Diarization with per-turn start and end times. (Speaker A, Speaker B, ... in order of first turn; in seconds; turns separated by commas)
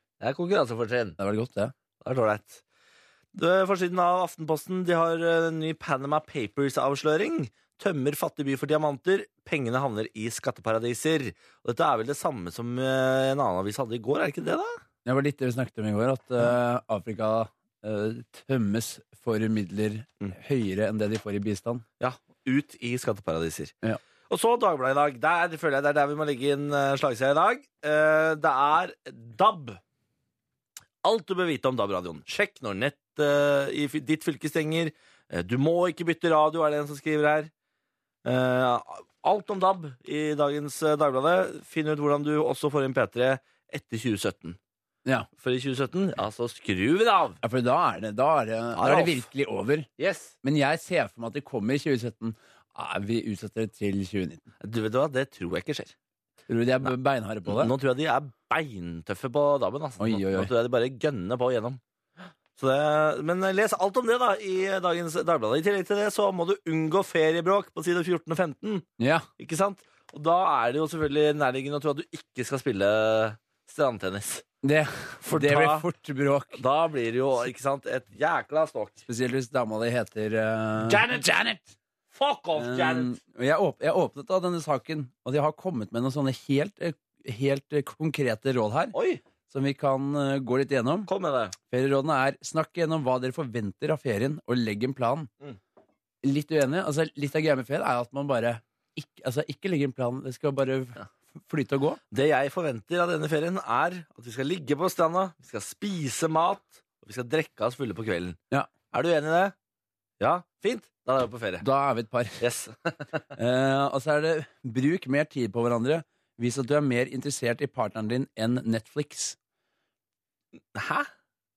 Speaker A: 0.2-1.2, Speaker B: 1.2-1.7, Speaker A: 2.0-2.6, Speaker A: 3.3-14.7, Speaker B: 15.0-21.8, Speaker A: 22.0-23.7, Speaker A: 24.3-29.8, Speaker A: 31.0-37.5, Speaker A: 38.2-44.6, Speaker A: 45.4-47.4, Speaker B: 47.4-49.9, Speaker A: 48.7-49.2, Speaker A: 50.0-50.3, Speaker B: 50.4-54.4, Speaker A: 54.6-55.9, Speaker B: 56.5-57.7, Speaker A: 57.4-61.8, Speaker B: 60.0-60.5, Speaker A: 62.6-68.8, Speaker B: 69.0-69.3, Speaker A: 69.4-74.4, Speaker B: 74.6-76.6, Speaker A: 75.2-75.9, Speaker A: 76.5-79.0, Speaker B: 79.1-81.7, Speaker A: 80.8-81.3, Speaker A: 82.1-83.2, Speaker B: 82.6-88.9, Speaker A: 88.9-89.2, Speaker B: 89.5-91.1, Speaker A: 91.1-91.5, Speaker B: 91.7-95.3, Speaker B: 96.2-102.0, Speaker A: 102.1-108.4, Speaker A: 108.9-109.5, Speaker A: 110.2-111.6, Speaker B: 111.6-112.4, Speaker A: 112.4-113.2, Speaker B: 113.3-119.4, Speaker A: 120.7-121.1